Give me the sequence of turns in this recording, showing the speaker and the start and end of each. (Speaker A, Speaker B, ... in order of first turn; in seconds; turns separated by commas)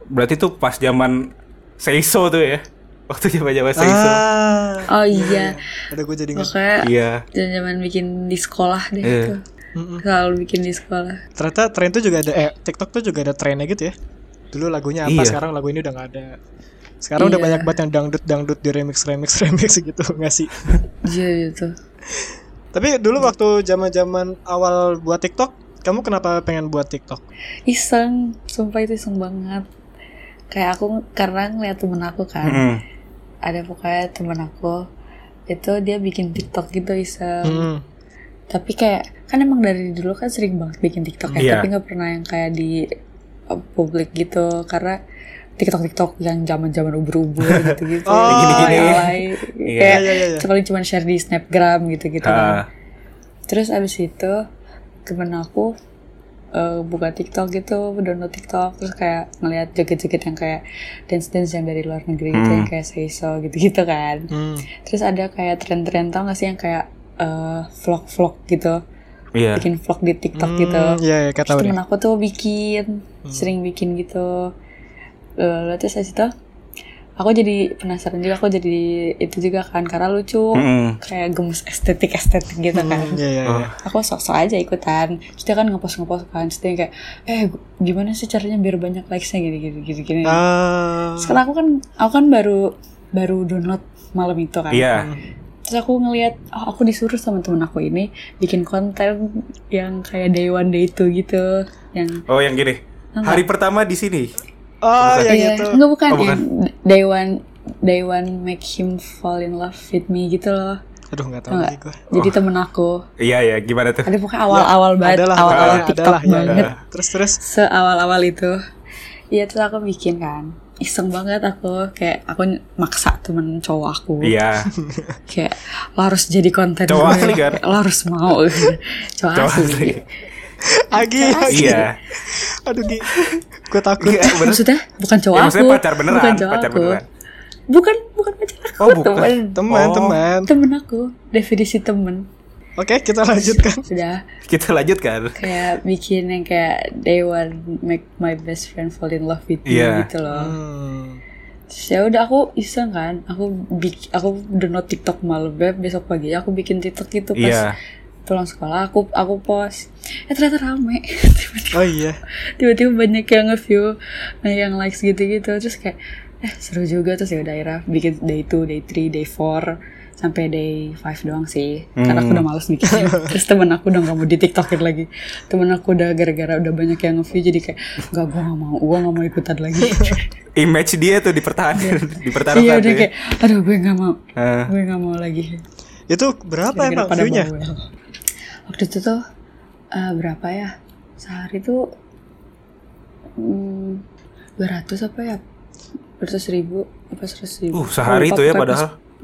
Speaker A: 0.1-4.2, Speaker B: 3.8-6.5, Speaker C: 4.9-5.6, Speaker C: 6.4-9.4, Speaker A: 6.8-7.2, Speaker A: 9.0-9.3, Speaker B: 9.8-10.0, Speaker C: 10.0-11.2, Speaker B: 11.4-13.9, Speaker B: 14.5-16.4, Speaker A: 15.1-15.4, Speaker B: 17.0-20.6, Speaker C: 17.2-17.8, Speaker C: 21.0-21.8, Speaker B: 22.2-27.2, Speaker C: 27.7-29.7, Speaker C: 30.5-32.7, Speaker A: 32.5-32.8, Speaker C: 33.5-34.8, Speaker C: 35.5-37.7, Speaker B: 37.4-37.8, Speaker C: 38.5-42.8, Speaker A: 41.4-41.7, Speaker C: 43.5-45.0, Speaker C: 45.6-52.6, Speaker A: 47.5-47.8, Speaker B: 48.1-49.1, Speaker A: 48.3-50.0, Speaker B: 49.9-50.5, Speaker A: 52.2-52.7, Speaker C: 53.5-54.4, Speaker C: 55.1-55.7, Speaker C: 56.5-68.8, Speaker A: 62.3-62.7, Speaker B: 64.3-64.7, Speaker A: 69.3-69.7, Speaker C: 69.5-74.5, Speaker B: 70.4-71.8, Speaker B: 73.2-73.5, Speaker C: 75.4-76.3, Speaker C: 77.2-83.2, Speaker A: 80.5-81.0, Speaker B: 82.7-83.7, Speaker A: 83.5-83.7, Speaker C: 83.8-90.4, Speaker B: 90.3-91.4, Speaker C: 91.2-95.0, Speaker A: 94.7-95.1, Speaker B: 94.9-95.2, Speaker C: 95.7-102.2, Speaker A: 102.3-104.3, Speaker C: 103.2-103.4, Speaker B: 104.8-105.8, Speaker A: 105.0-105.3, Speaker C: 105.3-110.8, Speaker A: 106.1-106.4, Speaker B: 111.1-112.0, Speaker C: 111.5-113.0, Speaker A: 113.2-114.1, Speaker C: 114.0-116.7, Speaker B: 114.5-117.4, Speaker A: 115.5-115.8, Speaker A: 116.5-116.7, Speaker C: 117.4-118.6, Speaker C: 119.3-124.4, Speaker A: 124.2-124.7, Speaker B: 124.8-125.1, Speaker C: 125.3-130.0, Speaker A: 126.9-127.6, Speaker A: 129.3-130.0, Speaker B: 130.6-134.5, Speaker C: 130.9-131.9, Speaker A: 131.5-131.9, Speaker A: 134.0-134.6, Speaker C: 134.2-137.0, Speaker A: 135.3-137.1, Speaker C: 137.7-139.6, Speaker A: 138.8-140.2, Speaker B: 139.5-140.5, Speaker C: 140.5-142.3, Speaker B: 142.8-143.8, Speaker C: 143.4-144.2, Speaker A: 144.5-145.5, Speaker C: 145.4-150.5, Speaker A: 149.7-150.1, Speaker B: 150.3-151.2, Speaker C: 151.7-157.7, Speaker A: 157.4-157.7, Speaker C: 158.3-161.9, Speaker B: 161.7-162.2, Speaker C: 162.6-180.3, Speaker A: 172.0-172.4, Speaker B: 172.9-173.3, Speaker A: 180.6-183.1, Speaker C: 181.8-185.6, Speaker A: 184.4-184.7, Speaker B: 186.1-187.5, Speaker C: 186.7-187.9, Speaker C: 188.7-189.2, Speaker C: 189.9-191.8, Speaker C: 193.4-194.0, Speaker C: 194.6-195.4, Speaker C: 196.2-198.8, Speaker A: 197.7-198.9